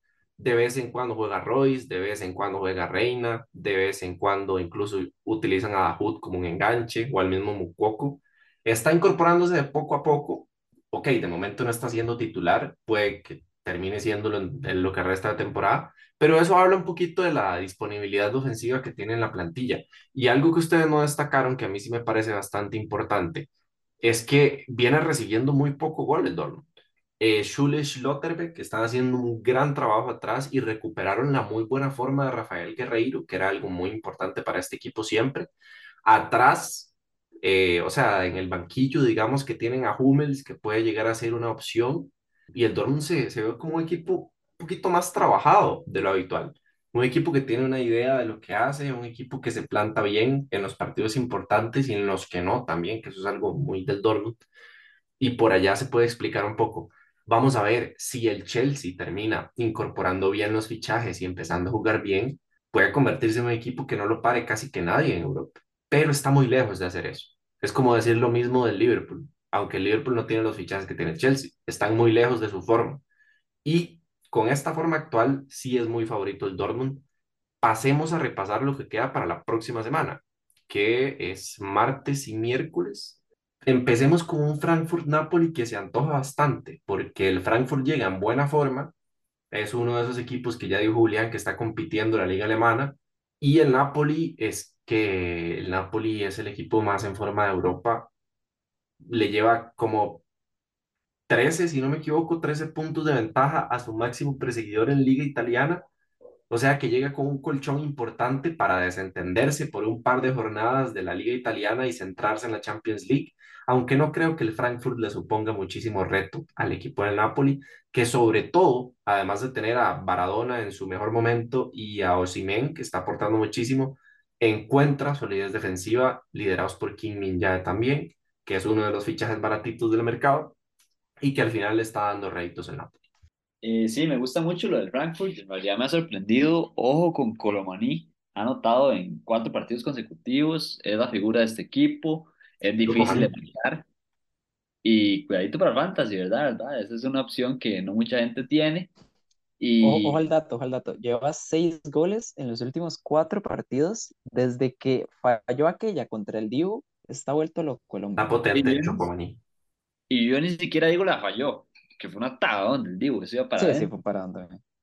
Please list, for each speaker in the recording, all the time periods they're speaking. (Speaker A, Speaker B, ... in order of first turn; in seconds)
Speaker A: 0.4-23.5, 24.0-26.7, 27.2-35.5, 36.0-54.4, 55.2-73.0, 73.6-77.0, 77.6-88.9, 89.5-98.1, 99.0-100.2, 101.3-105.8, 106.5-130.6, 131.2-132.9, 142.8-143.3, 158.2-159.4
Speaker B: 133.6-143.9, 144.8-148.9, 149.6-150.2, 158.5-159.1, 160.1-163.9
Speaker C: 149.8-158.3, 163.6-164.6